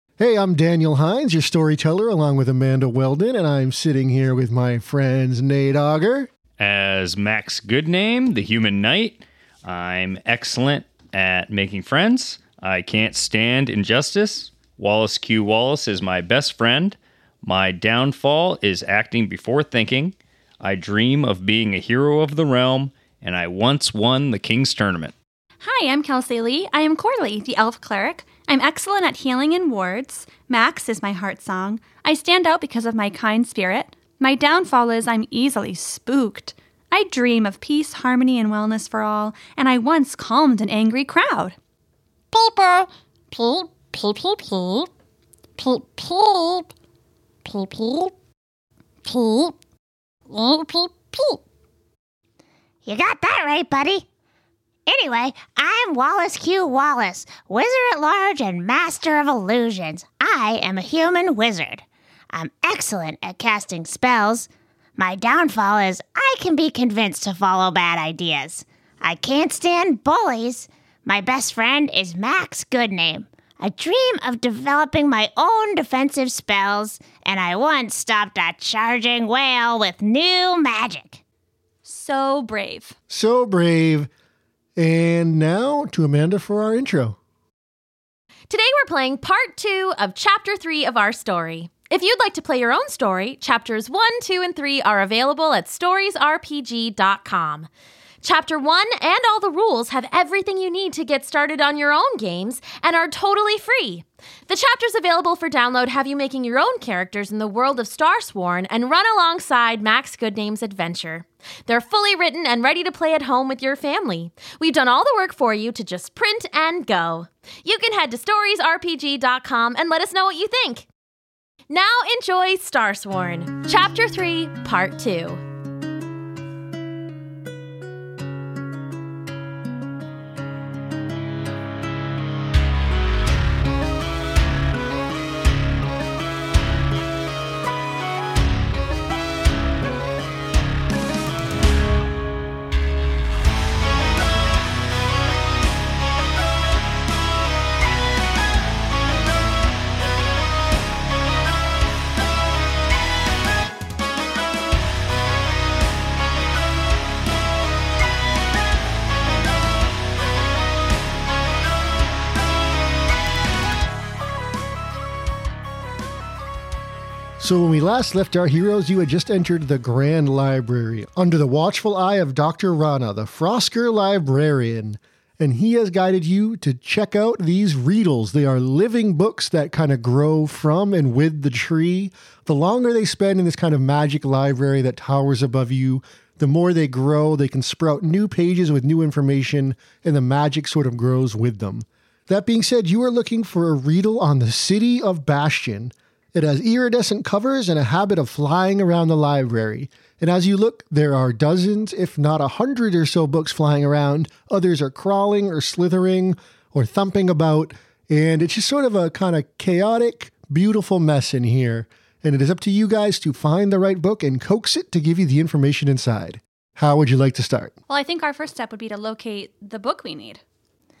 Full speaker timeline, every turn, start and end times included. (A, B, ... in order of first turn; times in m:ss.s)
0:00.2-0:06.3 A
0:06.6-0:25.1 B
0:25.6-0:41.6 C
0:42.3-0:44.9 D
0:45.6-0:46.7 D
0:47.4-0:48.1 D
0:49.0-0:49.5 D
0:50.3-0:51.4 D
0:52.8-0:54.0 E
0:54.9-1:21.2 E
1:21.8-1:23.0 C
1:23.1-1:24.1 A
1:24.8-1:27.2 A
1:28.5-1:37.7 D
1:38.2-2:00.9 D
2:01.7-2:05.4 D
2:47.4-3:37.7 A
3:37.9-3:40.4 C